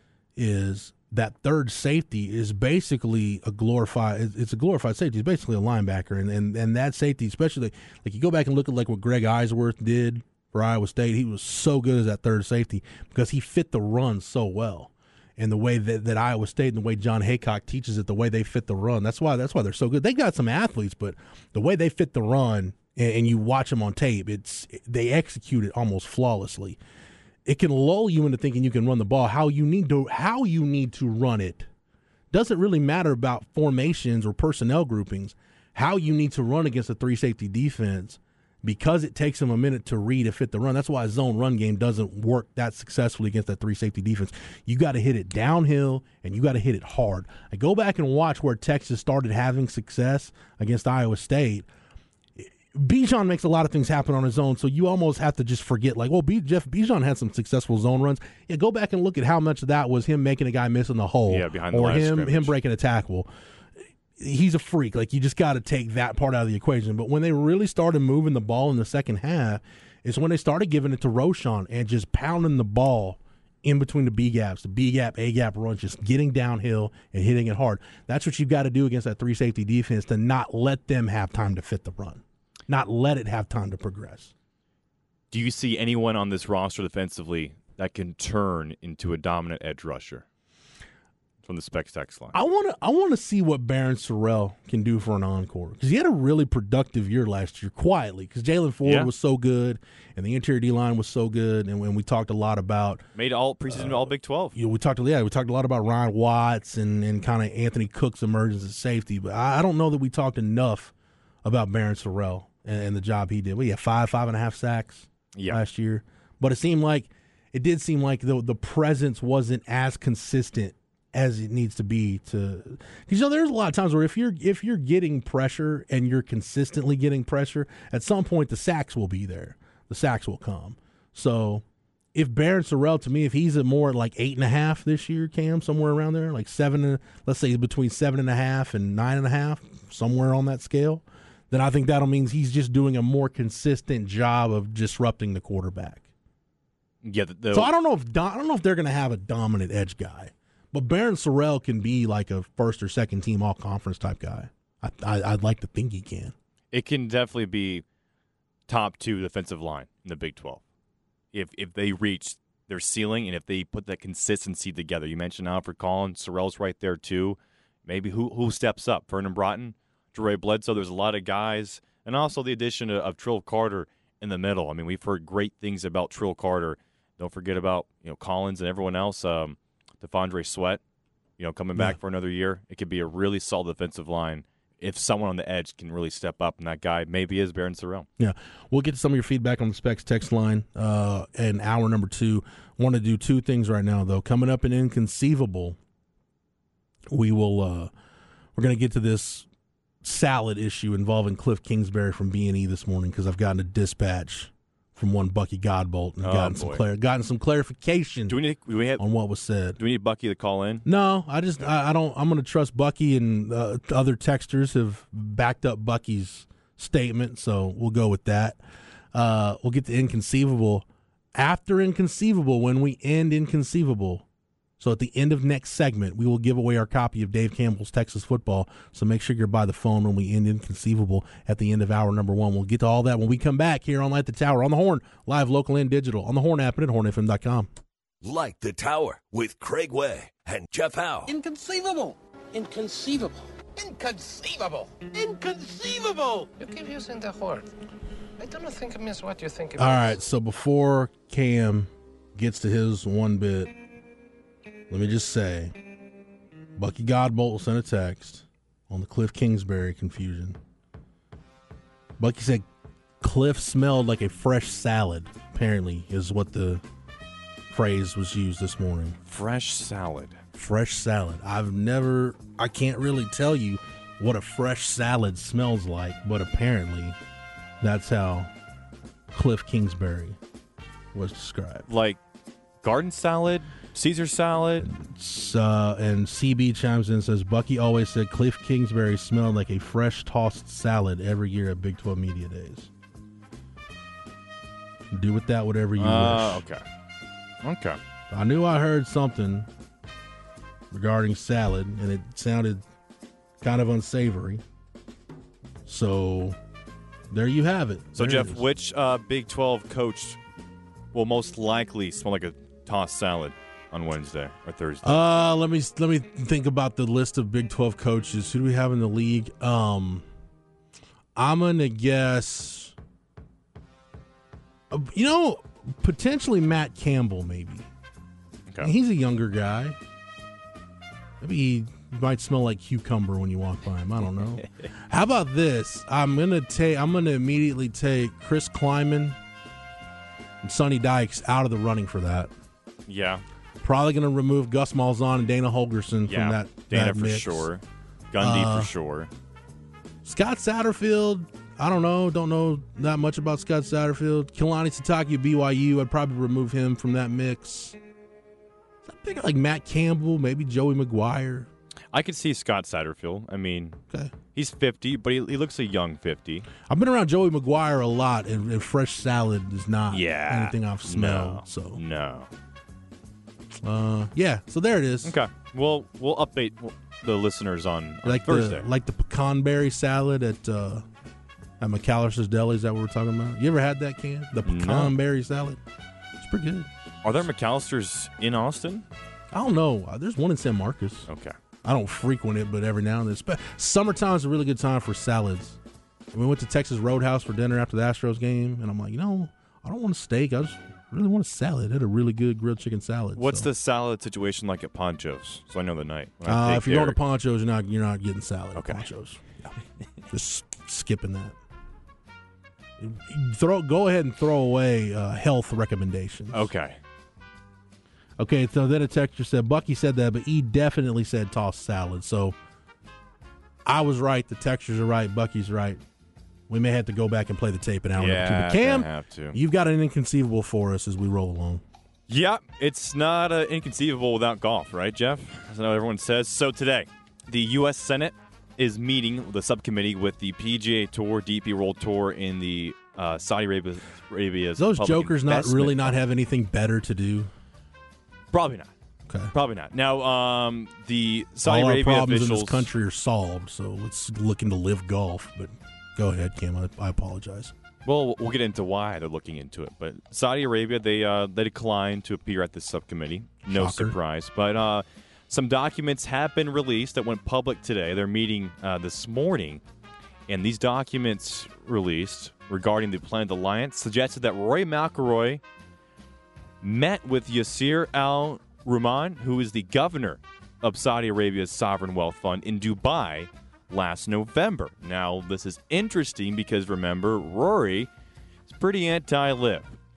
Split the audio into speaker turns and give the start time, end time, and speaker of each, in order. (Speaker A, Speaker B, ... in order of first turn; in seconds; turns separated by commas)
Speaker A: 0.3-26.8, Speaker A: 27.4-31.7, Speaker A: 32.3-51.6, Speaker A: 52.4-63.3, Speaker B: 61.3-62.5, Speaker A: 64.2-84.3, Speaker B: 85.3-90.2, Speaker B: 91.4-92.3, Speaker A: 92.3-103.0, Speaker B: 98.8-99.1, Speaker B: 103.2-104.6, Speaker A: 103.7-110.9, Speaker A: 111.4-146.1, Speaker B: 115.3-115.6, Speaker B: 147.0-147.7, Speaker A: 147.5-156.3, Speaker B: 156.7-157.8, Speaker B: 158.7-160.6, Speaker B: 161.3-180.8, Speaker B: 181.4-188.1, Speaker A: 188.2-195.8, Speaker A: 197.1-197.9, Speaker A: 198.5-199.5, Speaker A: 200.0-208.4, Speaker B: 206.2-206.8, Speaker B: 208.3-209.0, Speaker A: 209.0-209.8, Speaker B: 209.8-210.8, Speaker A: 210.8-218.6, Speaker A: 219.1-224.2, Speaker A: 224.8-237.7, Speaker C: 238.2-241.3, Speaker D: 241.3-247.7, Speaker D: 248.4-250.2, Speaker A: 249.8-253.7, Speaker A: 254.9-255.8, Speaker A: 256.8-260.6, Speaker A: 262.2-262.6, Speaker A: 263.2-266.8, Speaker A: 267.7-269.2, Speaker B: 269.2-270.4, Speaker A: 270.6-277.2, Speaker A: 277.8-278.5, Speaker A: 279.3-280.4, Speaker A: 281.1-281.9, Speaker B: 281.9-282.2, Speaker B: 282.8-284.9, Speaker A: 284.8-292.9, Speaker A: 295.1-296.6, Speaker B: 296.0-296.8, Speaker B: 297.6-298.0, Speaker A: 298.3-299.7, Speaker A: 300.9-302.8, Speaker A: 303.6-304.6, Speaker A: 305.9-306.6, Speaker A: 307.3-308.6, Speaker B: 308.1-310.4, Speaker B: 311.1-315.2, Speaker A: 315.0-320.2, Speaker A: 321.4-322.9, Speaker A: 324.9-327.9, Speaker A: 328.8-330.0, Speaker A: 331.4-339.4, Speaker A: 340.6-342.5, Speaker B: 343.1-343.4, Speaker A: 343.8-347.7, Speaker B: 346.2-349.3, Speaker A: 348.4-348.9, Speaker A: 350.2-358.0, Speaker A: 359.0-361.7, Speaker B: 362.1-364.0, Speaker B: 364.5-366.7, Speaker A: 366.9-372.0, Speaker B: 370.1-372.5, Speaker A: 373.8-375.3, Speaker B: 375.2-378.9, Speaker A: 378.2-381.1, Speaker A: 381.8-385.8, Speaker B: 384.6-385.1, Speaker A: 386.4-386.9, Speaker B: 387.2-389.1, Speaker A: 389.5-391.3, Speaker B: 391.3-391.6, Speaker A: 391.8-395.8, Speaker A: 396.3-403.7, Speaker B: 403.4-407.2, Speaker A: 406.4-409.4, Speaker B: 408.8-409.1, Speaker A: 410.3-411.6, Speaker A: 413.0-416.7, Speaker B: 416.5-417.0, Speaker A: 418.4-422.6, Speaker A: 423.9-426.0, Speaker A: 426.7-431.8, Speaker B: 428.1-429.6, Speaker B: 432.3-446.2, Speaker A: 444.8-447.5, Speaker B: 448.5-448.9, Speaker A: 449.3-449.5, Speaker B: 449.5-452.9, Speaker A: 451.6-457.7, Speaker B: 458.1-469.8, Speaker A: 463.7-464.2, Speaker B: 470.5-475.6, Speaker B: 476.8-488.1, Speaker B: 488.7-489.9